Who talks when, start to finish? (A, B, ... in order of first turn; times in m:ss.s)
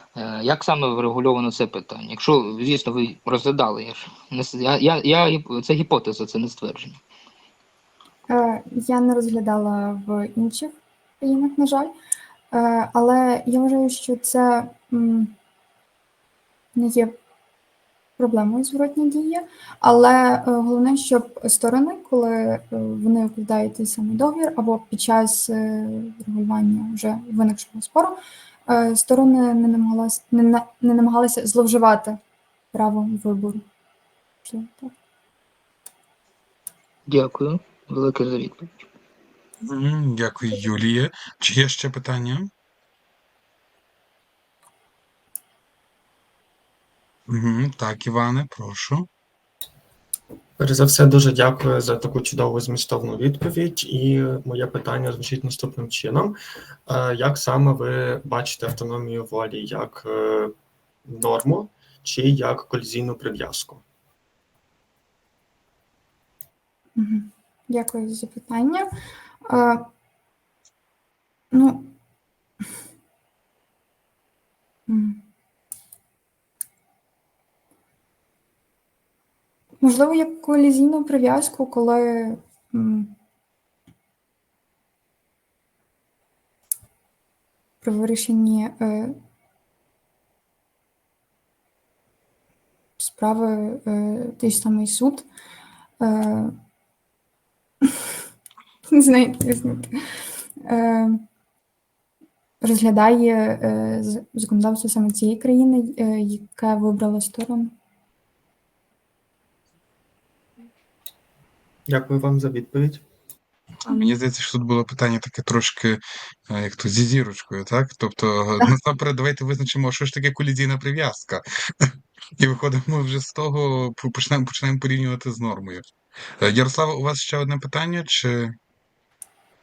0:00.2-0:07.0 A
0:08.3-0:11.9 B
0:12.5-0:15.3 B
0:16.8-0:17.2 B
0:18.2-0:32.2 B
0:32.7-0:33.6 B
0:34.4-0:34.9 B
0:37.1-0:38.9 A
0:39.6-0:42.5 C
0:47.3-0:49.1 C
0:50.6-1:00.6 D
1:01.1-1:03.8 D
1:07.0-1:08.9 B
1:09.5-1:09.9 B
1:11.5-1:11.9 B
1:14.9-1:15.2 B
1:19.8-1:23.2 B
1:27.8-1:29.2 B
1:33.0-1:35.3 B
1:36.0-1:36.5 B
1:38.9-1:40.0 B
1:40.6-1:41.2 B
1:42.6-1:47.7 B
1:51.9-1:53.0 D
1:53.8-2:05.8 C
2:06.4-2:08.6 C